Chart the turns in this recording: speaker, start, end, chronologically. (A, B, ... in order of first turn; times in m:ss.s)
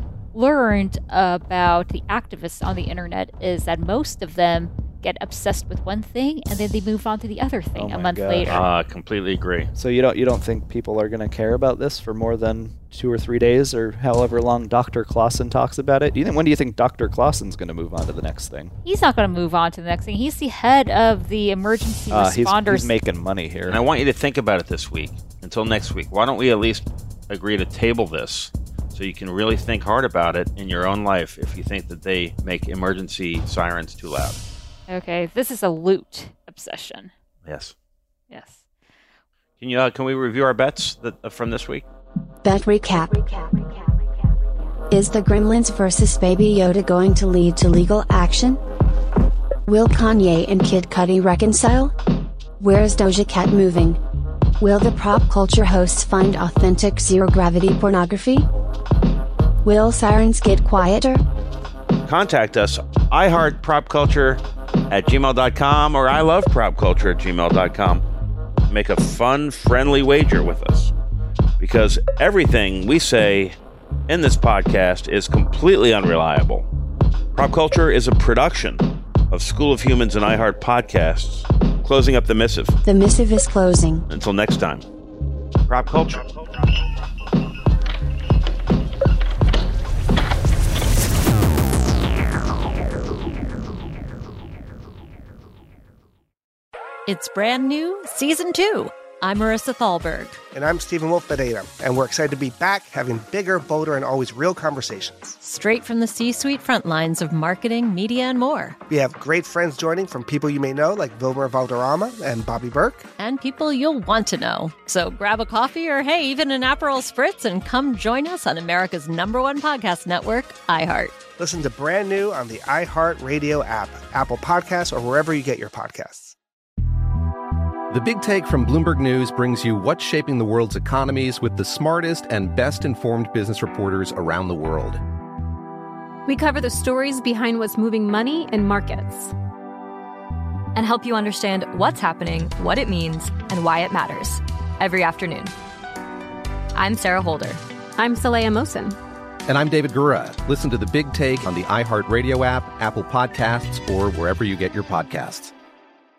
0:00.3-0:08.6 A
0:07.8-0:08.6 B
0:08.5-0:09.7 C
0:09.8-0:18.7 B
0:18.8-0:22.9 A
0:22.1-0:23.8 B
0:23.7-0:34.4 C
0:34.9-0:37.1 A
0:37.4-0:37.7 C
0:38.3-0:38.6 A
0:39.6-0:41.8 C
0:42.4-0:43.8 D
0:44.9-0:48.6 D
0:49.7-0:51.9 D
0:52.6-0:54.0 D
0:54.6-0:58.5 D
0:59.6-1:01.2 D
1:02.0-1:08.0 C
1:08.7-1:10.9 C
1:11.6-1:13.6 C
1:14.1-1:16.7 C
1:17.4-1:22.8 C
1:22.8-1:24.0 D
1:24.1-1:24.8 C
1:25.7-1:26.3 C
1:37.1-1:40.4 E
1:40.5-1:45.4 F
1:45.4-1:48.8 E
1:48.9-1:53.1 F
1:53.2-2:01.2 E
2:01.4-2:06.4 F
2:07.9-2:15.0 G
2:16.3-2:19.3 H
2:20.8-2:25.5 I
2:26.7-2:27.6 I
2:28.0-2:29.0 H
2:29.5-2:35.5 G